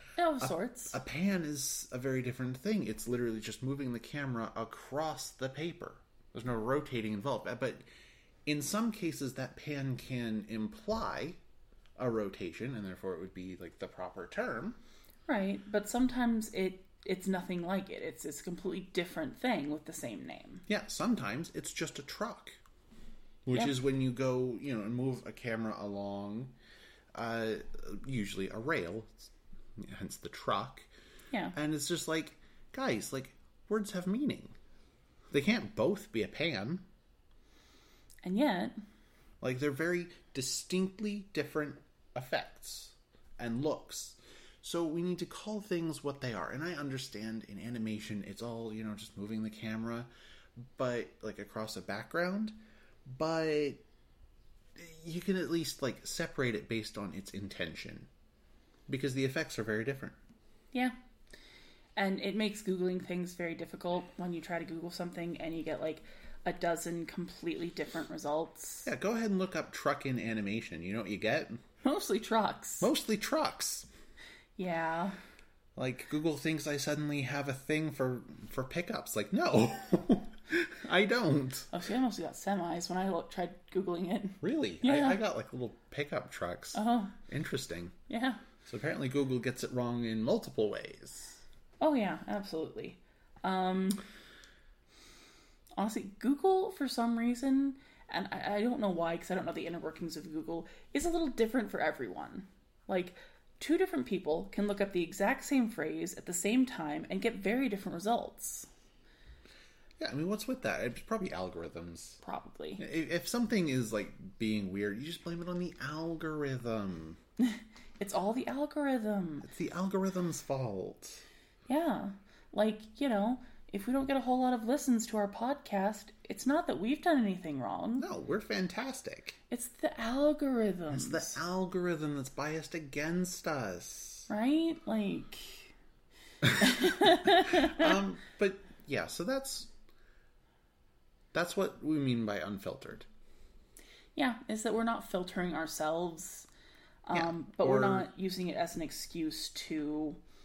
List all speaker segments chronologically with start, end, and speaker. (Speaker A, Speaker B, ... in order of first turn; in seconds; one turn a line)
Speaker A: 0.1-0.9
Speaker B: 0.4-7.8
Speaker B: 8.4-11.4
Speaker B: 12.0-14.8
Speaker A: 15.3-20.6
Speaker B: 20.7-22.6
Speaker B: 23.4-26.5
Speaker B: 27.1-30.9
Speaker B: 31.5-34.5
Speaker B: 35.3-36.8
Speaker A: 38.2-38.7
Speaker B: 39.4-50.1
Speaker B: 50.8-52.5
Speaker B: 53.1-53.8
Speaker B: 54.8-58.1
Speaker B: 58.9-60.1
Speaker A: 62.0-68.9
Speaker B: 68.8-71.6
Speaker A: 71.8-72.9
Speaker B: 72.8-73.9
Speaker A: 74.6-75.2
Speaker B: 75.8-81.7
Speaker A: 81.7-85.2
Speaker B: 84.4-87.9
Speaker A: 86.7-87.2
Speaker A: 88.1-88.4
Speaker B: 88.6-91.4
Speaker A: 91.8-94.0
Speaker A: 95.8-108.7
Speaker B: 110.0-112.2
Speaker A: 112.2-112.8
Speaker B: 112.8-117.2
Speaker A: 117.4-119.5
Speaker B: 119.4-121.2
Speaker A: 121.7-128.1
Speaker B: 128.0-129.4
Speaker A: 129.5-131.4
Speaker B: 130.9-134.3
Speaker A: 134.3-135.7
Speaker A: 136.6-137.9
Speaker B: 137.2-139.7
Speaker B: 141.3-143.1
Speaker A: 144.1-146.5
Speaker A: 147.1-150.2
Speaker B: 147.1-148.1